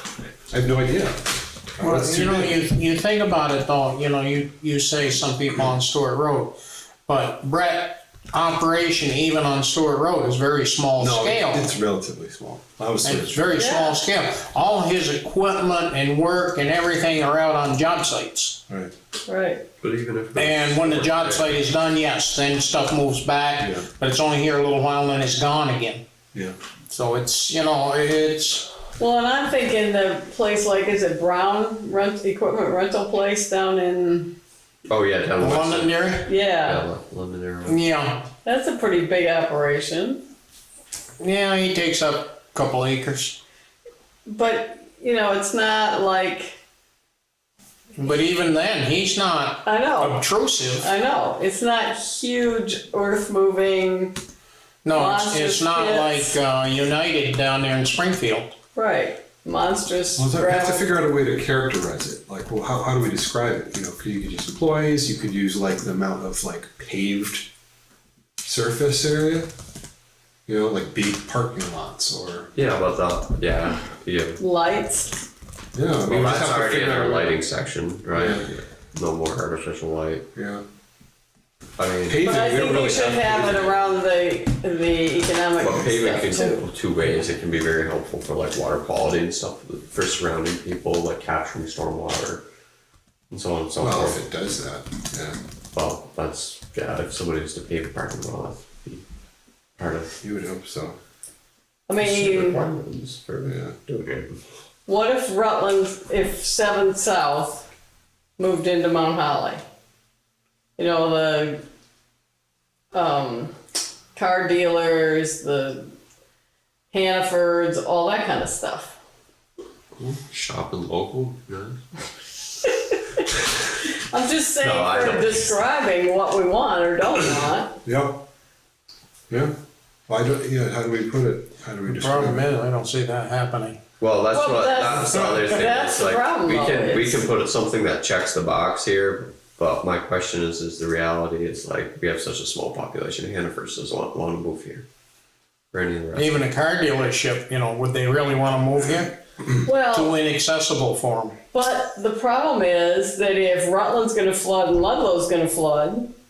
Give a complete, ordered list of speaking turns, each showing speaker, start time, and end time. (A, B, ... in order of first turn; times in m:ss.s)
0:00.5-0:02.6 A
0:01.8-0:06.5 B
0:07.1-0:11.7 B
0:11.0-0:13.7 A
0:13.0-0:18.6 B
0:13.5-0:14.0 C
0:18.7-0:18.9 A
0:19.3-0:19.6 C
0:19.8-0:21.6 D
0:20.4-0:26.0 B
0:23.6-0:23.9 A
0:26.9-0:28.7 B
0:29.0-0:34.3 C
0:34.9-0:37.8 D
0:35.4-0:36.3 B
0:36.2-0:36.9 C
0:37.6-0:38.3 B
0:38.4-0:40.2 C
0:41.2-0:43.4 B
0:44.3-0:46.6 C
0:48.0-0:50.8 B
0:49.6-0:54.2 C
0:54.8-0:58.5 B
0:54.9-0:56.3 C
0:58.7-1:01.0 C
1:00.2-1:07.5 A
1:08.4-1:09.5 A
1:10.5-1:12.6 A
1:12.5-1:14.4 D
1:14.4-1:15.1 C
1:15.7-1:17.4 A
1:16.0-1:20.2 D
1:18.1-1:18.5 A
1:20.3-1:20.6 A
1:21.8-1:23.6 D
1:22.1-1:23.8 A
1:22.2-1:26.6 C
1:25.6-1:32.4 D
1:33.3-1:34.2 D
1:33.8-1:35.4 A
1:35.7-1:39.0 D
1:39.8-1:40.1 D
1:40.2-1:41.0 A
1:41.9-1:42.6 C
1:42.0-1:44.4 D
1:43.4-1:43.7 A
1:44.8-1:47.7 C
1:48.4-1:49.6 C
1:50.8-1:51.6 C
1:52.9-1:53.5 C
1:54.1-1:55.9 C
1:56.9-1:59.0 C
2:00.0-2:01.8 D
2:04.1-2:07.8 C
2:04.6-2:05.6 D
2:07.8-2:08.2 A
2:09.3-2:09.5 A
2:10.1-2:12.5 A
2:11.8-2:13.8 B
2:14.0-2:24.8 D
2:14.3-2:17.2 C
2:15.1-2:15.5 B
2:25.7-2:26.4 D
2:26.2-2:29.1 B
2:29.6-2:30.2 C
2:29.9-2:31.4 B
2:31.5-2:36.1 C